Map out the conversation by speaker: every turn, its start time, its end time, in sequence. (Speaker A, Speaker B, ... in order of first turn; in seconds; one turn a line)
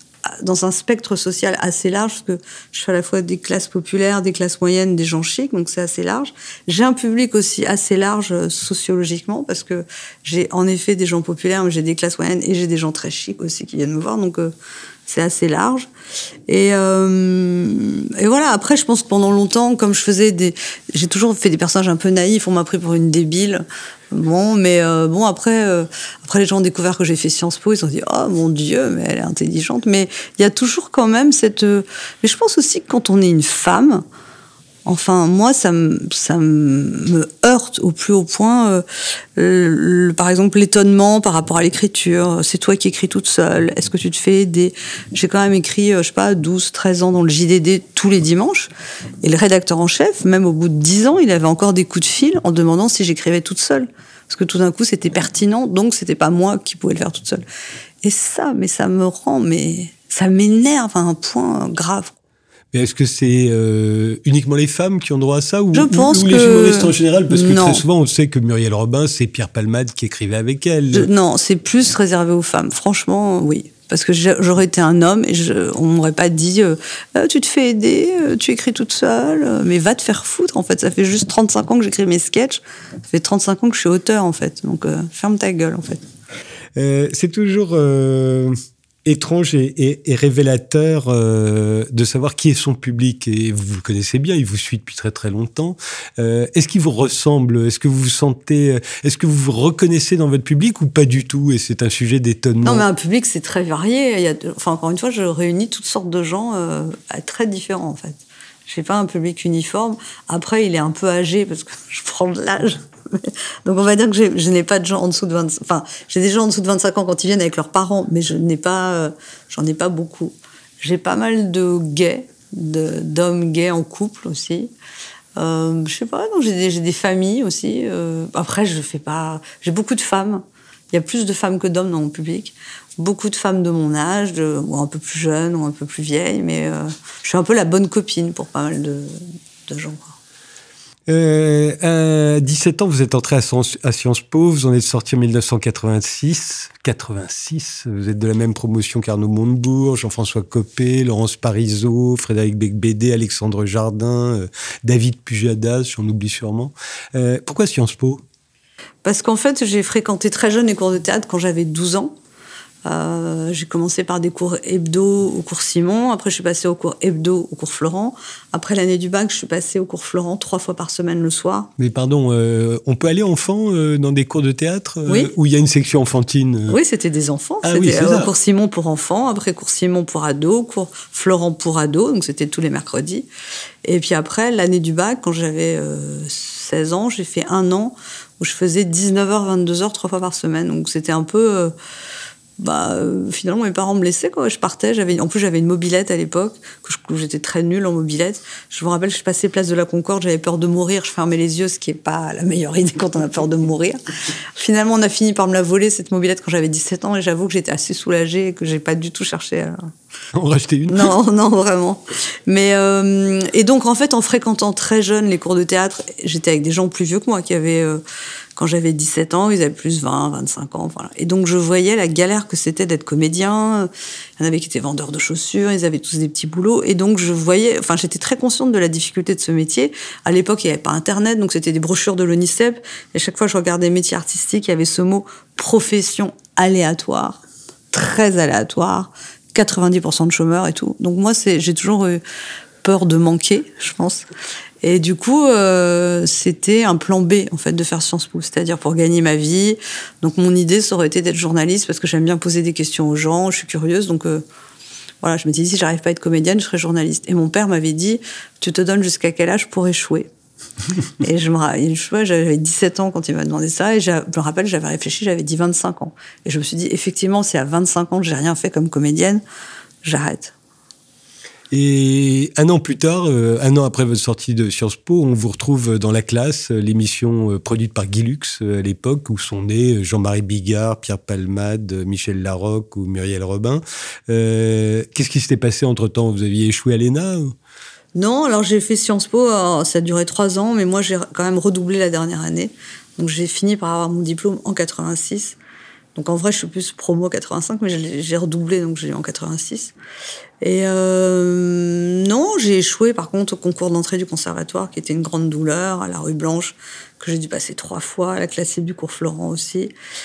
Speaker A: 0.3-14.5
Speaker A: 15.1-15.9
Speaker A: 16.5-34.0
Speaker A: 34.9-38.8
Speaker A: 39.4-48.7
Speaker A: 49.2-57.4
Speaker A: 58.0-62.1
Speaker B: 62.7-71.1
Speaker A: 65.7-67.8
Speaker A: 70.9-86.0
Speaker B: 86.8-88.5
Speaker B: 89.0-102.9
Speaker A: 102.6-124.7
Speaker A: 125.4-140.2
Speaker B: 141.1-158.2
Speaker A: 159.0-162.1
Speaker A: 162.8-171.7
Speaker B: 171.8-176.8
Speaker A: 175.1-175.3
Speaker A: 176.7-183.3
Speaker B: 177.6-178.3
Speaker A: 183.8-191.8
Speaker A: 192.6-209.8
Speaker B: 210.3-211.1
Speaker A: 210.9-218.0
Speaker A: 218.6-237.4
Speaker A: 237.9-242.2
Speaker A: 242.8-244.2
Speaker A: 244.8-254.4
Speaker A: 255.2-260.3
Speaker A: 261.2-269.4
Speaker A: 270.0-270.5
Speaker B: 271.7-287.5
Speaker A: 288.1-295.6
Speaker A: 296.1-299.9
Speaker A: 300.6-309.9